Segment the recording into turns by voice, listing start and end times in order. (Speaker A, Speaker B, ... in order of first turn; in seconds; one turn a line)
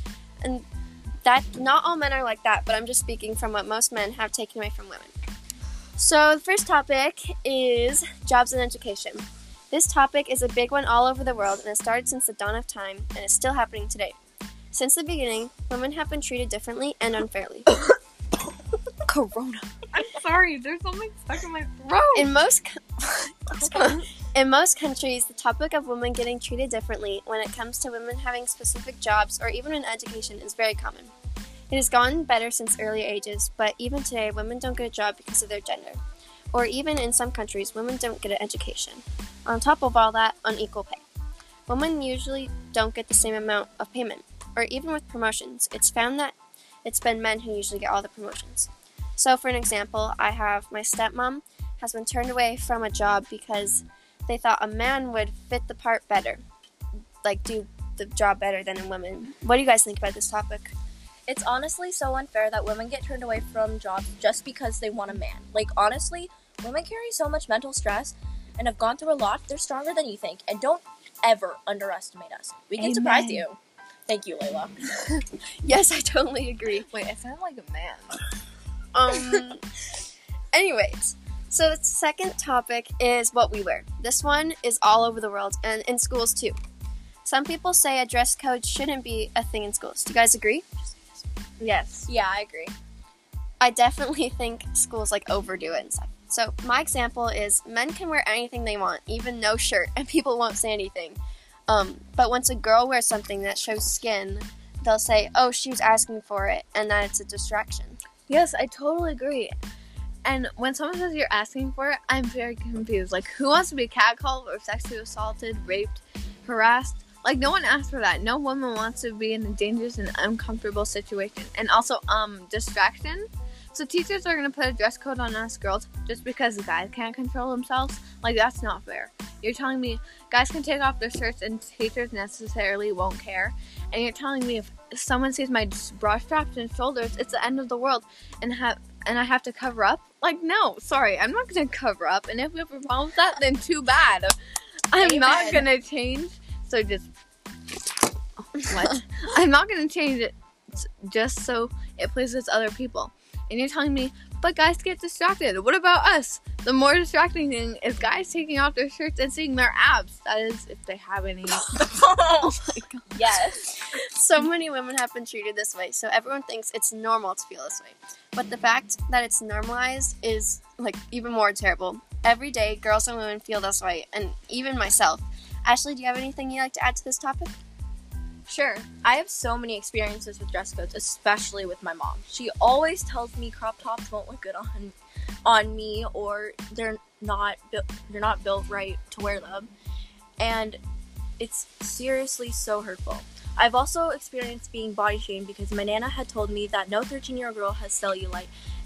Speaker A: 1.2-5.1
Speaker A: 6.0-14.2
Speaker A: 14.7-17.7
Speaker B: 19.1-19.7
Speaker C: 19.9-22.3
Speaker A: 22.1-31.1
Speaker C: 23.8-24.1
Speaker A: 31.7-36.0
Speaker A: 36.5-41.0
Speaker A: 41.7-56.4
Speaker A: 57.2-60.7
Speaker B: 61.3-74.8
Speaker C: 72.8-73.5
Speaker A: 75.1-76.9
Speaker C: 76.9-78.2
Speaker A: 78.9-79.6
Speaker C: 79.1-79.4
Speaker A: 80.5-86.6
Speaker A: 87.2-91.1
Speaker C: 91.6-92.1
Speaker B: 92.1-92.8
Speaker A: 93.6-108.0
Speaker C: 108.3-109.5
Speaker C: 110.2-144.3
Speaker C: 144.9-147.1
Speaker B: 145.0-145.7
Speaker C: 148.4-162.8
Speaker B: 162.2-162.5
Speaker B: 163.1-163.7
Speaker A: 163.6-177.6
Speaker B: 178.5-189.7
Speaker B: 190.4-190.8
Speaker B: 191.4-198.5